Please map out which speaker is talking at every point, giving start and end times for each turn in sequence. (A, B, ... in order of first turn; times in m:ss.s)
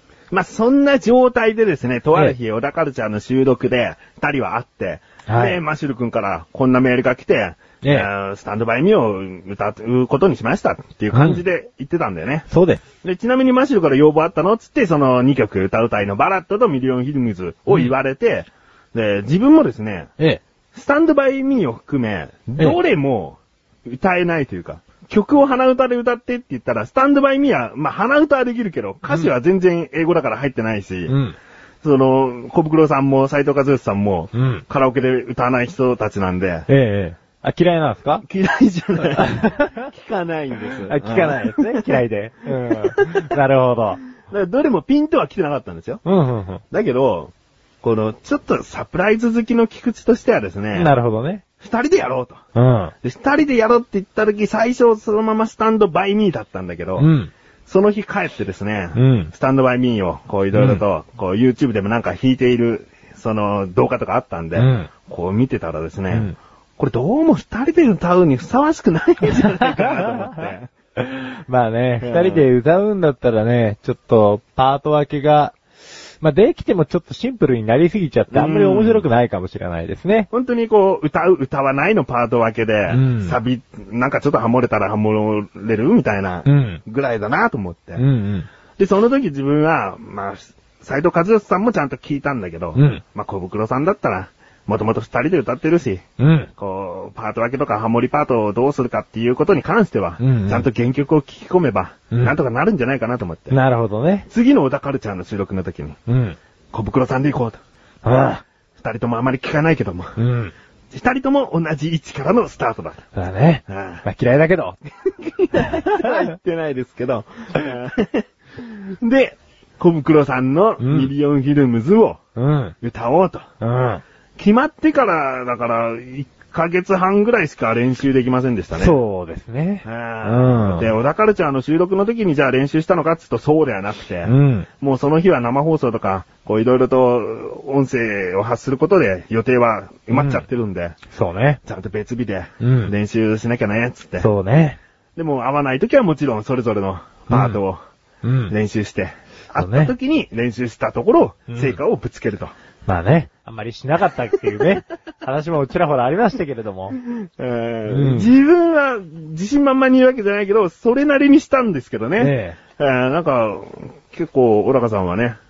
0:00.3-0:12.5 A
0:05.3-0:05.6 B
0:07.8-0:08.1 B
0:11.1-0:11.4 B
0:12.5-0:12.8 B
0:13.0-0:20.1 A
0:20.7-0:31.1 A
0:31.1-0:31.4 B
0:31.8-0:36.7 A
0:34.3-0:34.6 B
0:36.7-0:38.2 B
0:38.2-0:42.0 A
0:39.1-0:39.9 B
0:40.9-0:44.0 B
0:42.5-0:43.3 A
0:44.2-0:46.0 A
0:46.0-0:46.6 B
0:46.7-0:47.3 A
0:47.8-0:50.9 A
0:50.7-0:51.4 B
0:51.6-0:52.4 A
0:52.6-0:52.9 B
0:53.0-0:57.1 A
0:57.0-0:57.3 B
0:57.7-1:10.7 A
0:58.9-0:59.3 B
1:00.6-1:00.8 B
1:04.6-1:04.9 B
1:09.3-1:10.4 B
1:11.0-1:15.6 B
1:12.0-1:12.5 A
1:16.2-1:20.3 B
1:18.3-1:19.0 A
1:20.3-1:28.0 A
1:22.9-1:23.4 B
1:26.4-1:26.8 B
1:28.0-1:28.5 B
1:28.8-1:36.0 A
1:32.7-1:33.0 B
1:36.2-1:36.5 B
1:36.6-1:43.6 A
1:40.2-1:40.6 B
1:43.5-1:44.2 B
1:44.3-1:46.0 A
1:46.1-1:46.4 B
1:46.7-1:50.2 A
1:48.0-1:48.4 B
1:50.2-1:50.5 B
1:50.9-1:53.0 A
1:53.1-1:54.8 B
1:53.7-1:54.0 A
1:55.0-2:02.2 A
1:55.6-1:56.0 B
2:00.8-2:01.1 B
2:02.4-2:02.7 B
2:02.8-2:03.5 A
2:03.6-2:04.0 B
2:04.4-2:08.9 A
2:08.8-2:10.9 B
2:09.8-2:21.0 A
2:14.2-2:14.7 B
2:20.1-2:20.4 B
2:21.1-2:21.6 B
2:21.6-2:24.3 A
2:22.6-2:22.9 B
2:24.2-2:24.8 B
2:25.2-2:27.8 A
2:27.3-2:27.6 B
2:28.2-2:28.5 B
2:28.5-2:32.5 A
2:29.6-2:29.9 B
2:31.5-2:31.8 B
2:32.8-2:37.0 B
2:37.0-2:45.4 A
2:37.9-2:38.3 B
2:42.2-2:42.6 B